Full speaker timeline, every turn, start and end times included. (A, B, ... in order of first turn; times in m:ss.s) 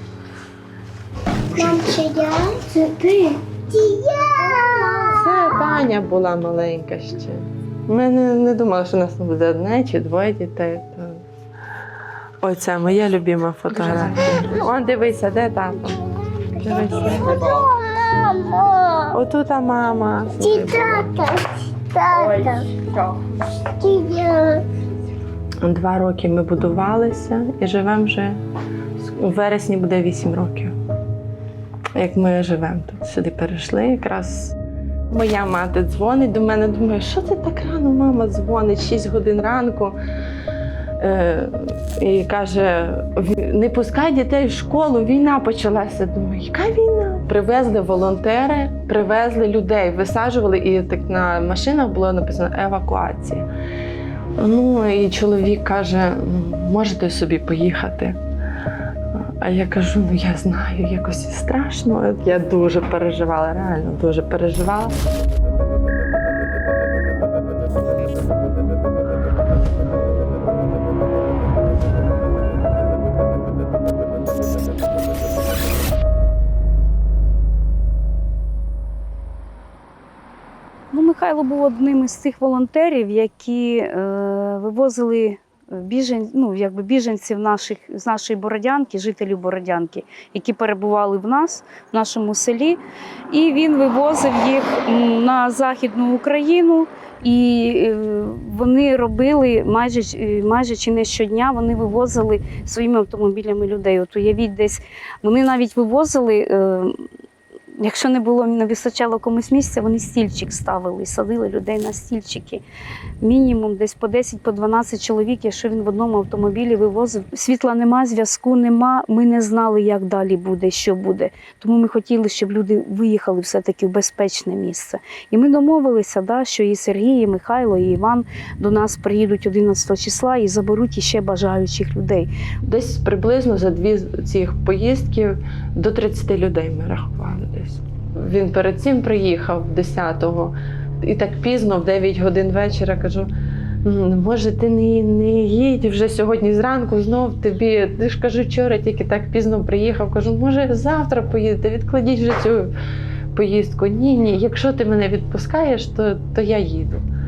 0:01.5-0:02.0 A
0:01.6-0:04.9 B
0:04.9-0:11.2 A
0:12.4-0:17.5 A
0:17.2-0:19.0 B
0:19.1-0:21.2 A
0:20.4-0:22.7 B
0:23.7-0:24.7 B
0:25.6-0:28.4 A
0:29.0-0:30.7 A
0:31.9-0:34.6 A
0:35.1-0:40.0 A
0:41.0-0:53.4 A
0:54.4-0:58.2 A
0:59.1-1:04.9 A
1:20.9-1:47.0 C
1:47.8-1:52.6 C
1:53.2-2:12.3 C
2:12.6-2:23.3 A
2:23.8-2:32.7 A
2:33.3-2:37.0 A